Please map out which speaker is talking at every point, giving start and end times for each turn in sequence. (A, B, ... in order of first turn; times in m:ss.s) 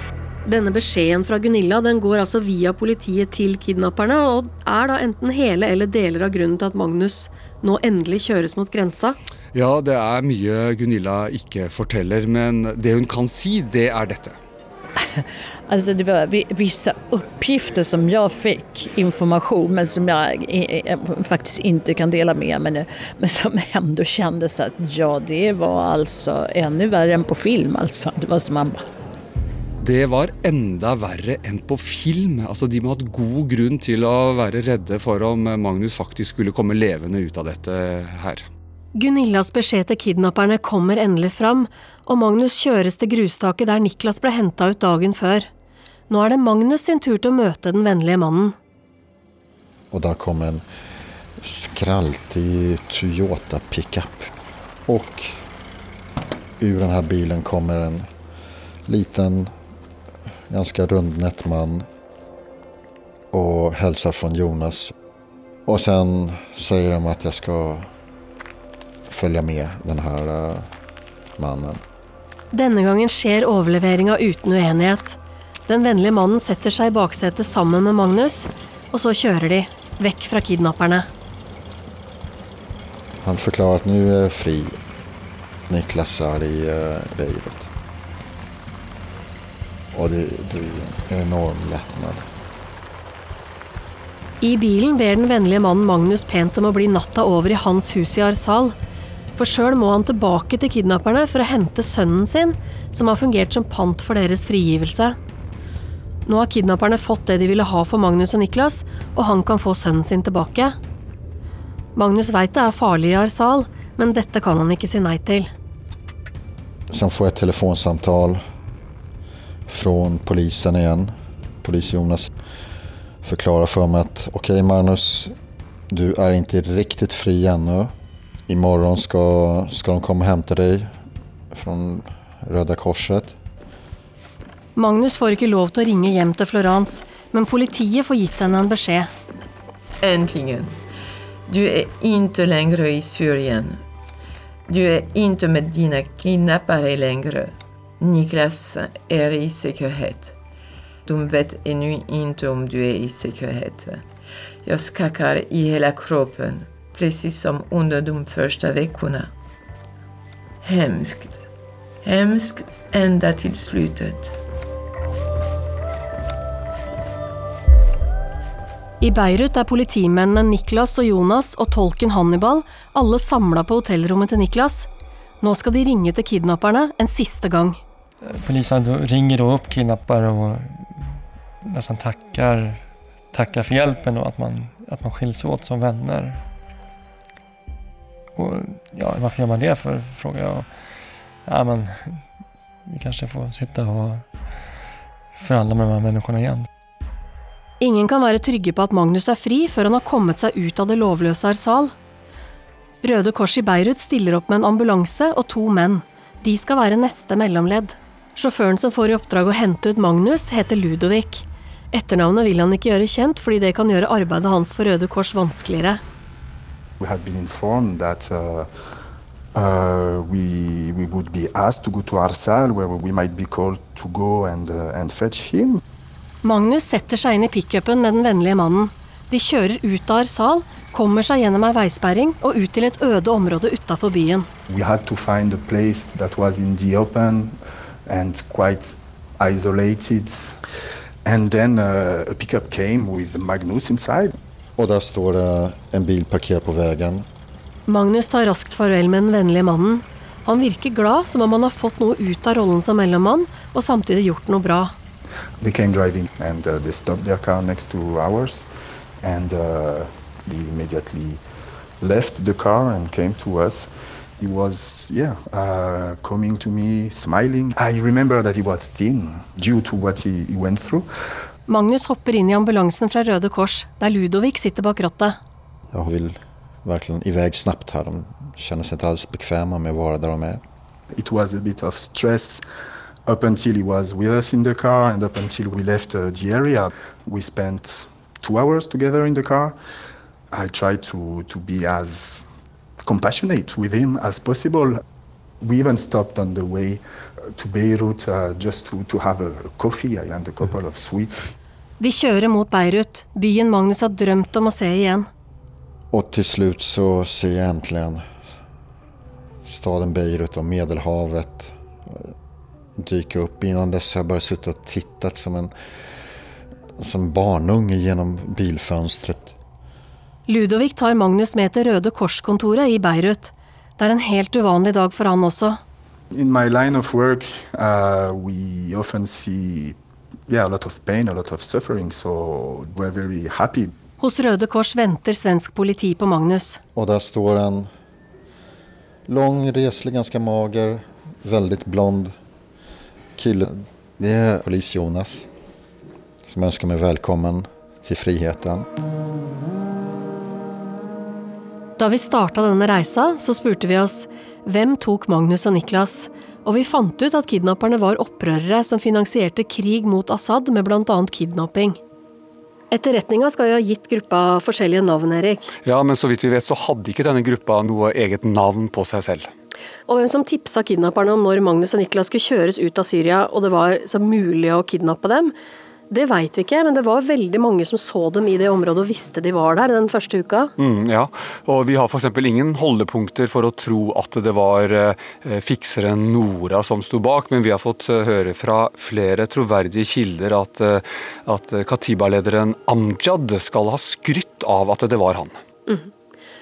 0:00.5-0:09.2 A
0:09.5-0:14.4 B
0:15.0-0:28.8 C
0:29.8-0:38.5 B
0:39.0-0:45.5 A
0:46.1-0:48.6 A
0:49.9-0:50.6 D
0:51.4-0:54.3 D
0:54.9-0:55.4 D
0:56.6-0:58.1 D
0:58.9-0:59.5 D
1:00.5-1:01.9 D
1:03.3-1:04.9 D
1:05.7-1:07.9 D
1:09.1-1:10.7 D
1:11.4-1:11.8 D
1:12.5-1:21.1 A
1:23.2-1:24.8 D
1:25.7-1:27.7 D
1:29.9-1:32.3 D
1:34.4-1:38.8 A
1:39.4-1:45.2 A
1:46.3-1:50.8 A
1:52.0-1:55.5 A
1:56.9-1:58.4 D
1:59.7-2:02.3 D
2:03.2-2:05.4 D
2:05.9-2:07.9 D
2:08.5-2:11.0 D
2:11.5-2:13.4 D
2:14.8-2:19.1 A
2:20.0-2:20.8 E
2:21.5-2:23.8 E
2:24.7-2:30.4 E
2:31.1-2:34.1 E
2:34.6-2:39.3 E
2:40.6-2:41.4 E
2:42.0-2:44.4 E
2:49.0-2:54.9 A
2:55.4-2:57.8 A
2:58.2-3:06.4 F
3:08.4-3:10.7 F
3:11.4-3:12.2 F
3:12.9-3:14.2 F
3:15.4-3:16.7 F
3:17.8-3:21.9 A
3:23.0-3:36.0 A
3:37.0-3:38.7 G
3:39.6-3:45.8 G
3:46.4-3:54.5 A
3:54.7-4:00.6 G
4:01.2-4:04.4 G
4:04.8-4:07.3 D
4:07.9-4:14.9 A
4:15.6-4:18.7 G
4:19.2-4:21.4 G
4:22.0-4:31.1 G
4:31.7-4:35.4 A
4:35.9-4:40.6 D
4:41.2-4:42.6 G
4:43.3-4:49.8 G
4:50.5-4:52.5 G
4:53.1-4:55.0 G
4:55.6-4:57.0 G
4:57.6-5:01.5 G
5:02.0-5:05.3 A
5:06.1-5:08.3 D
5:09.6-5:12.3 D
5:13.0-5:15.7 D
5:17.0-5:19.6 D
5:20.5-5:25.8 A
5:26.3-5:30.0 G
5:30.5-5:33.9 G
5:34.2-5:36.8 A
5:37.0-5:37.9 D
5:39.3-5:42.4 D
5:43.4-5:45.5 D
5:46.4-5:48.9 D
5:52.0-6:02.0 A
6:02.9-6:05.7 A
6:05.8-6:09.5 B
6:10.1-6:15.5 A
6:16.1-6:20.7 A
6:20.8-6:35.6 B